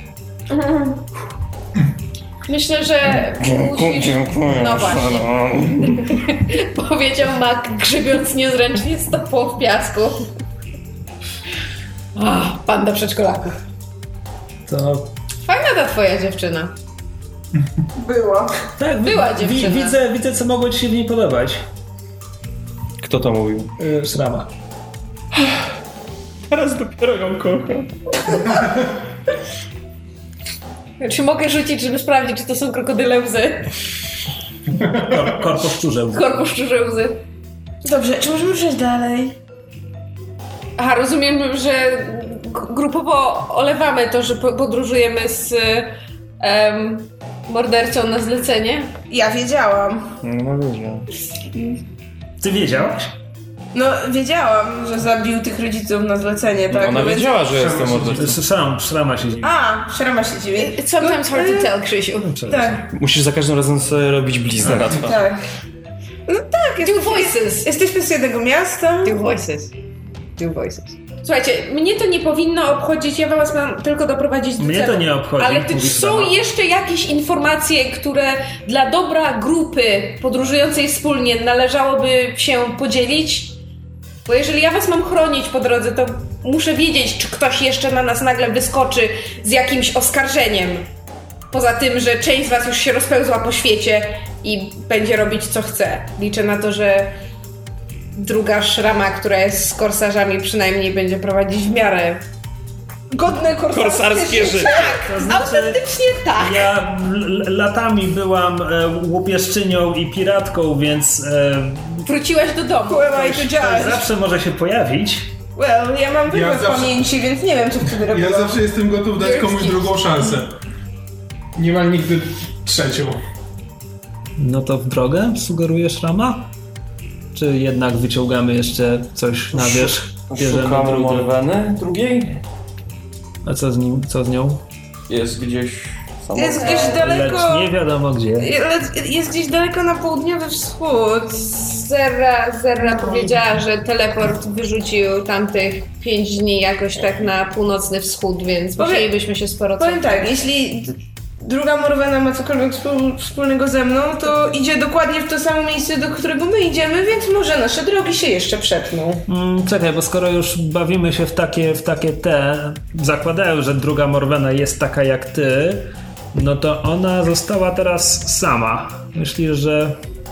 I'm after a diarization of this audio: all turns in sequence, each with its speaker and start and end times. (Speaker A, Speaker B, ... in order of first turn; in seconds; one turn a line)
Speaker A: 0.5-1.1
Speaker A: 2.5-5.3
Speaker B: 3.4-6.1
Speaker A: 5.8-10.3
Speaker A: 12.2-13.6
Speaker C: 14.7-15.1
Speaker A: 15.4-16.8
Speaker D: 17.9-18.6
Speaker C: 18.8-21.7
Speaker A: 19.0-20.0
Speaker B: 23.0-23.7
Speaker C: 23.8-24.5
Speaker B: 26.5-28.5
Speaker A: 31.0-33.8
Speaker C: 34.8-36.3
Speaker A: 36.1-37.2
Speaker D: 37.8-39.4
Speaker A: 40.8-49.0
Speaker D: 49.1-50.2
Speaker B: 50.2-51.1
Speaker C: 52.4-53.1
Speaker D: 53.7-57.4
Speaker B: 56.7-58.4
Speaker E: 57.3-58.4
Speaker C: 58.1-59.5
Speaker D: 59.4-61.7
Speaker A: 60.6-62.4
Speaker C: 62.2-62.9
Speaker D: 62.5-62.9
Speaker B: 62.9-65.2
Speaker D: 64.6-65.4
Speaker D: 66.3-69.2
Speaker A: 66.8-67.7
Speaker A: 69.0-69.7
Speaker A: 70.4-83.6
Speaker C: 74.6-76.4
Speaker A: 84.2-90.9
Speaker A: 91.5-97.2
Speaker A: 98.2-102.2
Speaker D: 103.1-105.2
Speaker B: 103.7-105.1
Speaker C: 105.0-105.8
Speaker A: 105.0-106.7
Speaker C: 106.4-112.1
Speaker A: 112.0-113.1
Speaker D: 112.8-114.1
Speaker C: 113.1-115.4
Speaker D: 115.5-118.5
Speaker E: 116.3-117.1
Speaker E: 118.0-120.6
Speaker A: 119.2-119.9
Speaker E: 121.5-123.2
Speaker C: 124.4-126.5
Speaker C: 127.3-131.3
Speaker B: 129.5-132.4
Speaker C: 133.4-134.6
Speaker B: 135.1-137.3
Speaker D: 136.4-137.7
Speaker C: 136.9-138.5
Speaker D: 138.4-141.4
Speaker A: 141.4-150.4
Speaker D: 148.8-149.1
Speaker D: 149.8-159.2
Speaker C: 159.3-170.0